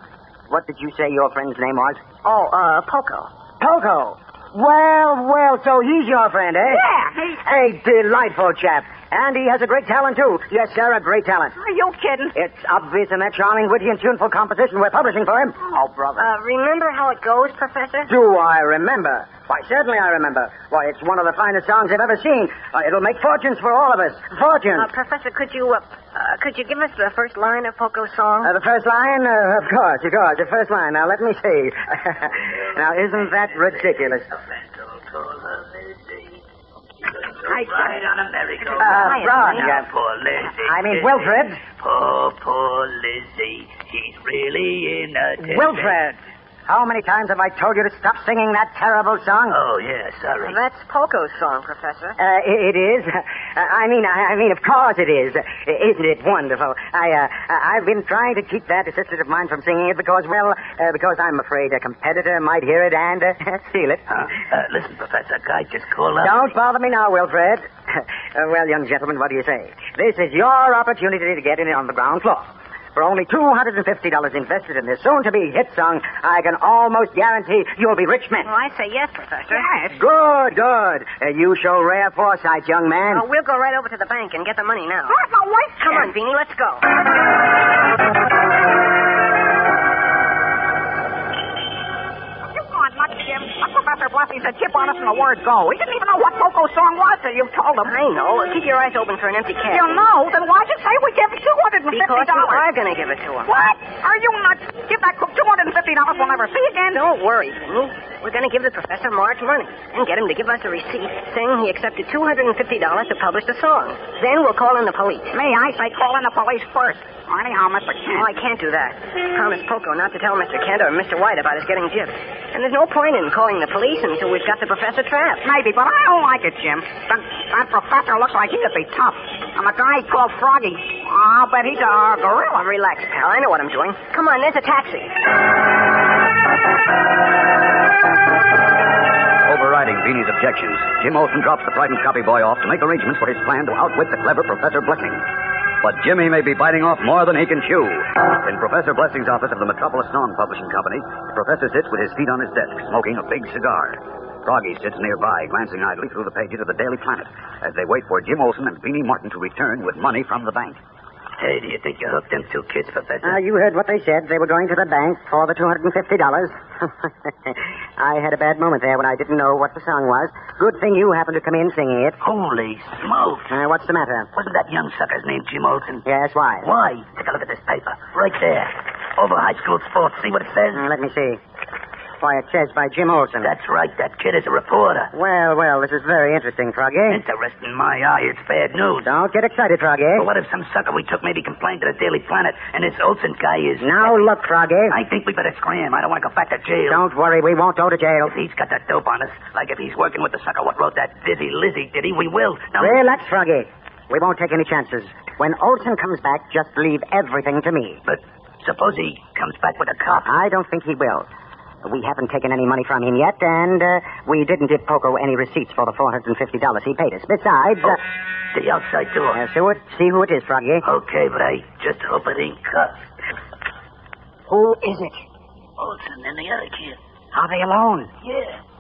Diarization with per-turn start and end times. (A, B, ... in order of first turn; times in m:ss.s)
0:00.5-0:02.0 A
0:02.2-0:03.3 B
0:03.6-0:06.8 A
0:06.7-0:07.4 C
0:07.4-0:11.6 A
0:11.6-0:12.3 C
0:12.4-0:15.6 A
0:15.6-0:16.2 C
0:16.2-0:18.1 B
0:18.1-0:24.9 A
0:24.7-0:28.5 B
0:28.4-0:34.3 A
0:33.1-0:36.3 D
0:37.0-0:46.0 D
0:37.6-0:37.9 A
0:38.8-0:39.9 A
0:38.8-0:39.7 B
0:40.6-0:41.6 A
0:45.4-0:49.6 A
0:49.5-0:50.5 D
0:50.4-0:52.2 B
0:52.2-1:04.0 A
1:04.1-1:06.4 D
1:06.2-1:18.5 A
1:18.4-1:19.9 B
1:19.5-1:19.9 C
1:19.9-1:23.2 A
1:23.0-1:25.2 B
1:25.1-1:26.1 C
1:25.8-1:26.8 B
1:32.5-1:38.0 C
1:37.9-1:40.1 B
1:39.7-1:42.7 C
1:41.9-1:43.5 B
1:43.4-1:47.0 C
1:46.9-1:55.3 B
1:55.3-1:58.3 C
1:58.2-2:05.4 B
2:05.4-2:12.8 C
2:12.6-2:15.1 B
2:19.5-2:25.2 E
2:25.8-2:40.8 E
2:41.4-2:43.4 D
2:43.2-2:46.6 A
2:47.5-2:52.2 A
2:52.2-2:53.5 D
2:53.5-2:54.3 A
2:54.3-2:56.0 D
2:56.1-2:56.7 A
2:56.6-3:00.9 D
3:00.7-3:01.4 A
3:02.2-3:03.5 A
3:03.4-3:05.1 D
3:05.1-3:07.2 A
3:07.1-3:09.1 D
3:09.0-3:10.3 A
3:10.2-3:14.3 D
3:13.8-3:15.0 A
3:14.9-3:17.0 D
3:16.9-3:18.3 A
3:18.2-3:23.1 D
3:22.8-3:28.0 A
3:28.1-3:30.3 D
3:30.3-3:31.3 A
3:31.9-3:38.0 A
3:38.5-3:39.4 D
3:39.3-3:40.8 A
3:40.8-3:43.0 D
3:44.5-3:45.2 A
3:45.8-3:47.0 D
3:47.3-3:48.1 A
3:48.2-3:48.6 D